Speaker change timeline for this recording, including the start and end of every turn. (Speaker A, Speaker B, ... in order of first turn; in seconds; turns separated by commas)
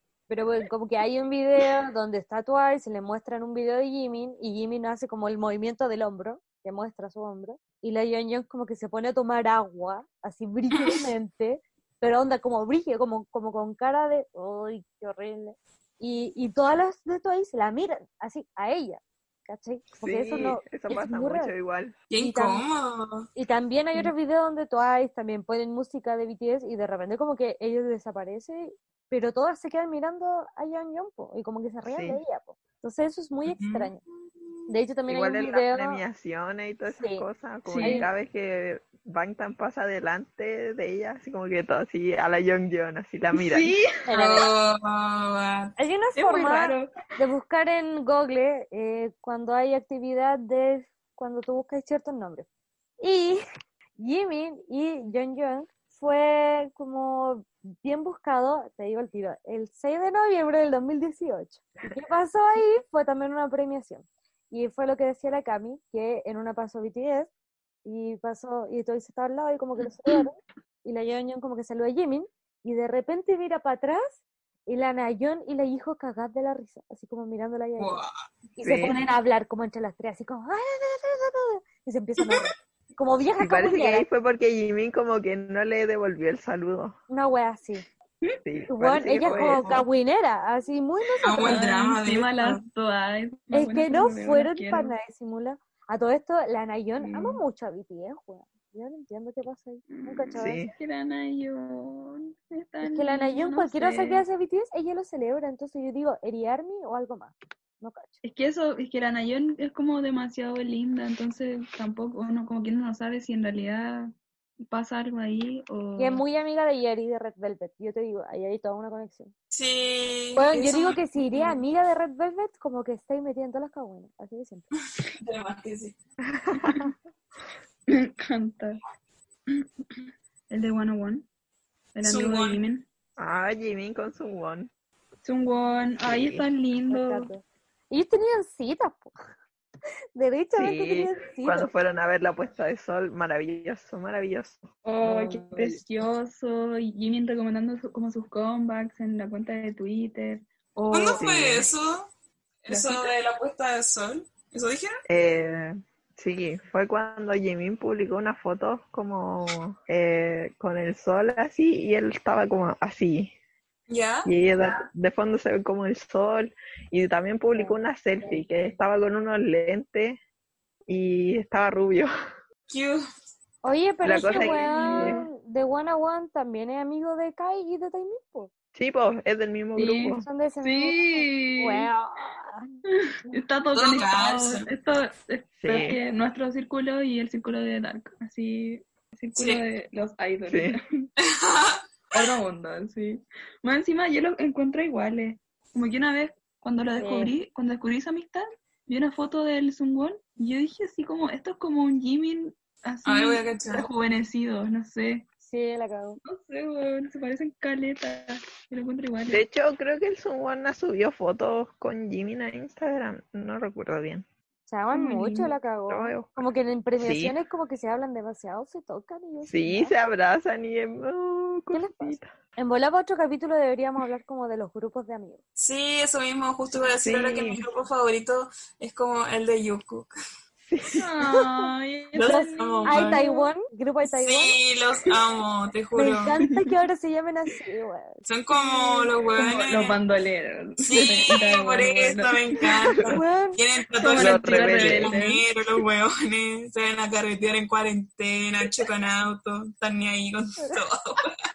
Speaker A: 0.3-21.5, Speaker B: 10.7-11.0, Speaker C: 20.0-21.9, Speaker B: 22.1-23.3, Speaker A: 22.2-22.6, Speaker A: 23.4-34.0, Speaker C: 31.9-32.2, Speaker B: 33.5-33.9, Speaker A: 34.7-36.0, Speaker C: 35.1-43.7, Speaker A: 36.9-37.2, Speaker D: 37.7-38.1, Speaker D: 43.4-44.1, Speaker A: 44.1-44.5, Speaker B: 44.1-45.7, Speaker A: 45.8-52.5, Speaker D: 46.1-46.9, Speaker A: 53.0-53.4, Speaker A: 54.0-67.3, Speaker A: 67.8-78.0, Speaker B: 77.8-78.1, Speaker A: 78.5-84.1, Speaker C: 78.6-79.0, Speaker C: 83.4-87.0, Speaker A: 87.1-87.8, Speaker C: 88.4-89.8, Speaker A: 88.7-91.6, Speaker B: 89.2-89.8, Speaker B: 91.2-92.6, Speaker D: 91.2-94.9, Speaker A: 93.5-100.6, Speaker D: 97.0-97.4, Speaker D: 99.9-104.2, Speaker C: 100.4-100.7, Speaker A: 102.8-108.2, Speaker D: 108.2-116.2, Speaker A: 116.0-119.3, Speaker B: 119.5-121.0, Speaker A: 120.3-124.7, Speaker D: 121.2-121.6, Speaker B: 125.2-126.0, Speaker C: 126.3-126.9, Speaker D: 126.6-126.9, Speaker D: 127.9-128.8, Speaker D: 129.5-131.3, Speaker D: 131.9-132.9, Speaker B: 132.0-132.6, Speaker C: 133.2-134.7, Speaker D: 135.2-137.3, Speaker C: 136.0-136.4, Speaker A: 136.9-139.2, Speaker A: 140.2-141.7, Speaker C: 140.6-144.7, Speaker D: 144.8-151.2, Speaker A: 145.0-145.8, Speaker B: 150.9-152.1, Speaker C: 151.1-151.7, Speaker B: 152.6-155.0, Speaker D: 152.7-153.1, Speaker C: 155.1-163.3, Speaker B: 163.9-164.3, Speaker C: 164.2-170.2, Speaker C: 170.9-172.1, Speaker B: 172.7-173.0, Speaker A: 173.6-178.5, Speaker C: 174.0-175.2, Speaker D: 174.1-175.3, Speaker C: 178.7-180.3, Speaker D: 179.8-181.9, Speaker A: 180.2-183.4, Speaker D: 183.2-191.1, Speaker B: 183.7-184.7, Speaker C: 185.6-186.0, Speaker B: 189.3-189.6, Speaker C: 190.5-190.8, Speaker B: 191.2-192.3, Speaker D: 192.1-205.2, Speaker A: 197.0-197.3, Speaker B: 203.1-203.9, Speaker A: 205.4-206.2, Speaker D: 206.2-209.4, Speaker C: 209.3-214.2, Speaker A: 214.7-219.9, Speaker D: 214.9-215.6, Speaker C: 215.9-216.4, Speaker C: 217.0-217.3, Speaker C: 219.4-222.3, Speaker A: 221.7-225.4, Speaker B: 225.6-230.1, Speaker C: 227.0-227.6, Speaker C: 230.7-231.0, Speaker D: 231.0-233.5, Speaker B: 232.1-233.2, Speaker A: 232.2-234.6, Speaker B: 234.1-236.4, Speaker A: 235.9-238.2, Speaker B: 238.2-240.0, Speaker D: 238.5-242.7, Speaker B: 240.8-251.3, Speaker C: 242.9-243.2, Speaker A: 243.1-243.6, Speaker D: 244.0-245.4, Speaker C: 244.2-245.2